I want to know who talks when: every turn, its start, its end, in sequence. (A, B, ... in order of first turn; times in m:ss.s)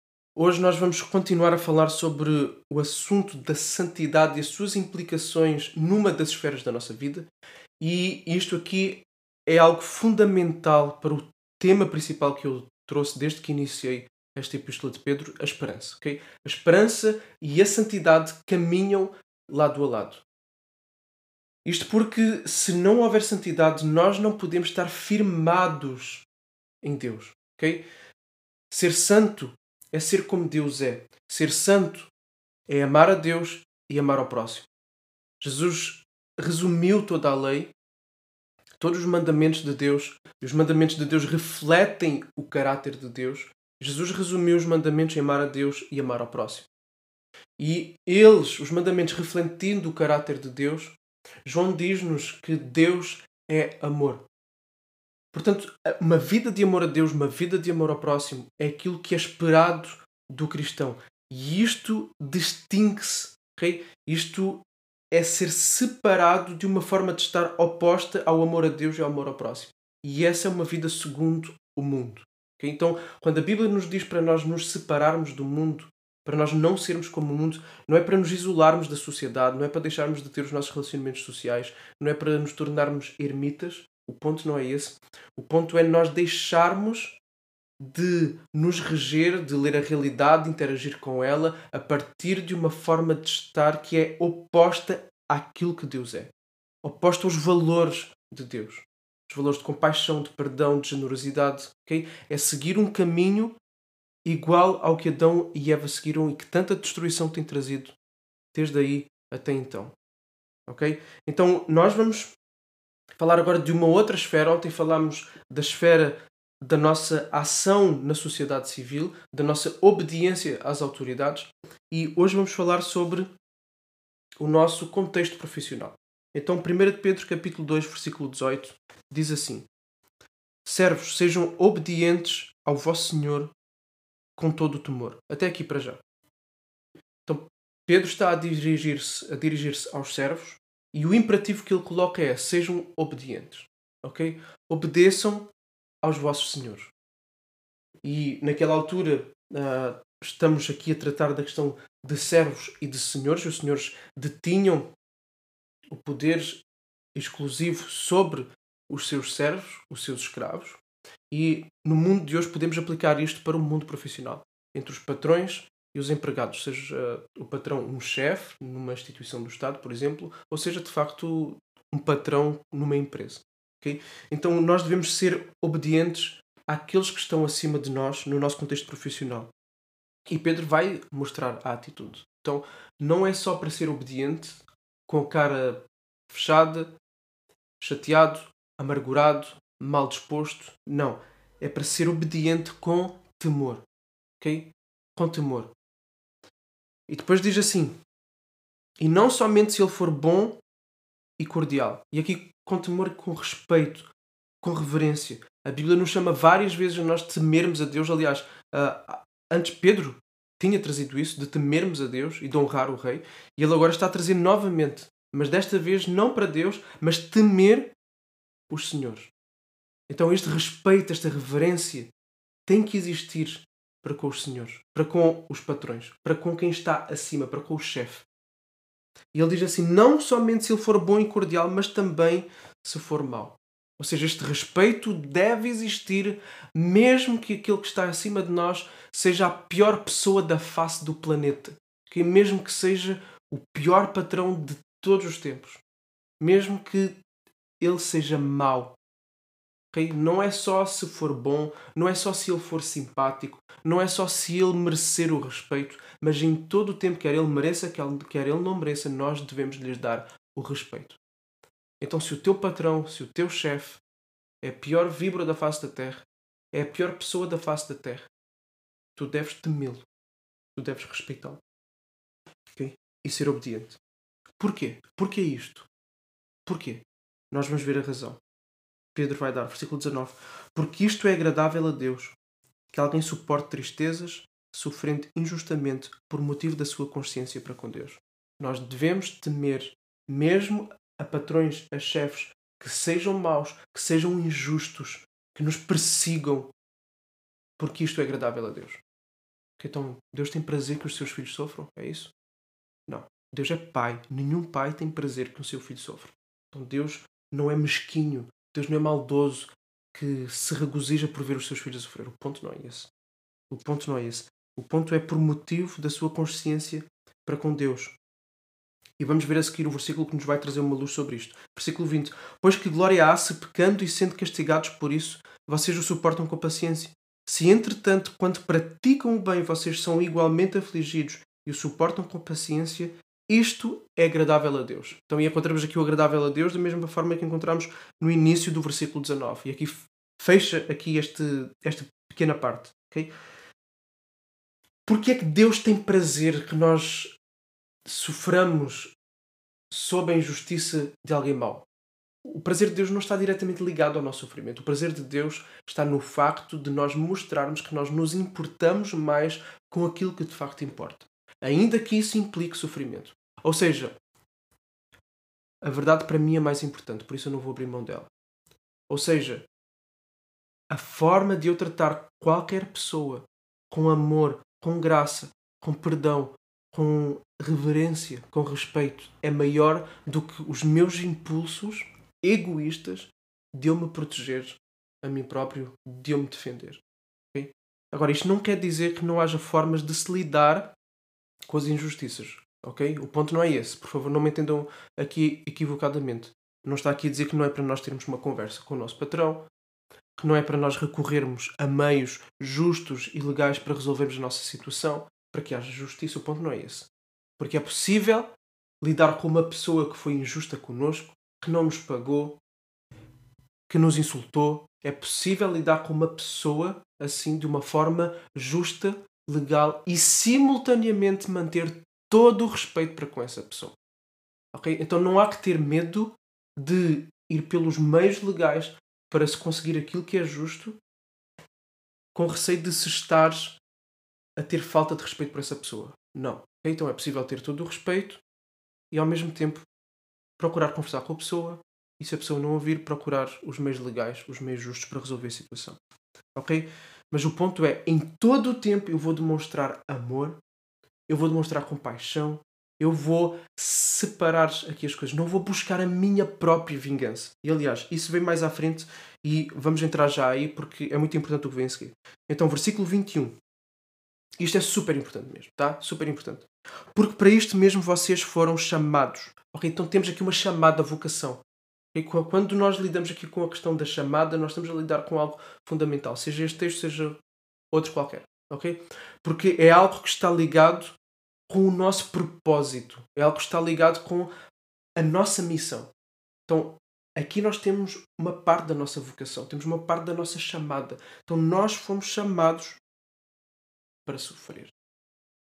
0:00.4-0:07.3 A
0:07.8-0:20.2 A
0:21.6-0:26.3 A
0:26.8-0:27.8 A
0:28.7-0:32.1 A
0:32.7-0:34.7 A
0:35.4-0:37.7 A
0:38.8-0:46.7 A
0:47.6-0:54.2 A
0:55.3-1:27.2 A
1:27.8-1:36.3 A
1:36.8-1:43.6 A
1:44.2-1:48.0 A
1:48.5-1:49.9 A
1:50.7-1:52.4 A
1:53.2-2:03.3 A
2:04.4-2:09.7 A
2:10.6-2:13.5 A
2:14.4-2:16.0 A
2:17.3-2:25.5 A
2:26.0-2:26.9 A
2:28.0-2:34.9 A
2:35.9-2:36.6 A
2:37.2-2:59.5 A
3:00.3-3:06.9 A
3:07.8-3:13.8 A
3:14.4-3:15.7 A
3:17.1-3:18.0 A
3:19.0-3:20.6 A
3:21.4-3:24.1 A
3:24.6-3:37.9 A
3:38.7-3:39.3 A
3:40.1-3:42.1 A
3:42.7-3:48.3 A
3:49.3-4:05.8 A
4:06.4-4:07.2 A
4:07.8-4:09.0 A
4:09.9-4:21.2 A
4:22.0-4:24.0 A
4:24.6-4:28.3 A
4:29.2-4:30.0 A
4:30.8-4:31.6 A
4:32.8-4:34.0 A
4:34.6-4:35.9 A
4:36.7-4:38.4 A
4:39.2-4:42.4 A
4:42.9-4:56.7 A
4:57.8-4:59.0 A
4:59.8-5:02.3 A
5:03.1-5:13.1 A
5:13.7-5:18.2 A
5:19.2-5:43.3 A
5:45.1-5:47.3 A
5:48.1-5:49.1 A
5:49.9-5:51.9 A
5:52.4-6:04.2 A
6:05.8-6:08.3 A
6:09.1-6:09.7 A
6:10.9-6:27.0 A
6:27.5-6:30.9 A
6:31.7-6:39.7 A
6:40.4-6:47.1 A
6:47.6-6:48.5 A
6:49.0-6:52.6 A
6:53.9-7:04.0 A
7:04.7-7:11.0 A
7:12.3-7:13.8 A
7:14.6-7:18.4 A
7:19.1-7:19.9 A
7:20.6-7:26.0 A
7:26.6-7:30.6 A
7:31.3-7:43.6 A
7:44.6-7:51.6 A
7:52.1-7:57.4 A
7:57.9-8:01.2 A
8:01.7-8:04.5 A
8:05.2-8:06.1 A
8:06.7-8:13.0 A
8:14.3-8:14.9 A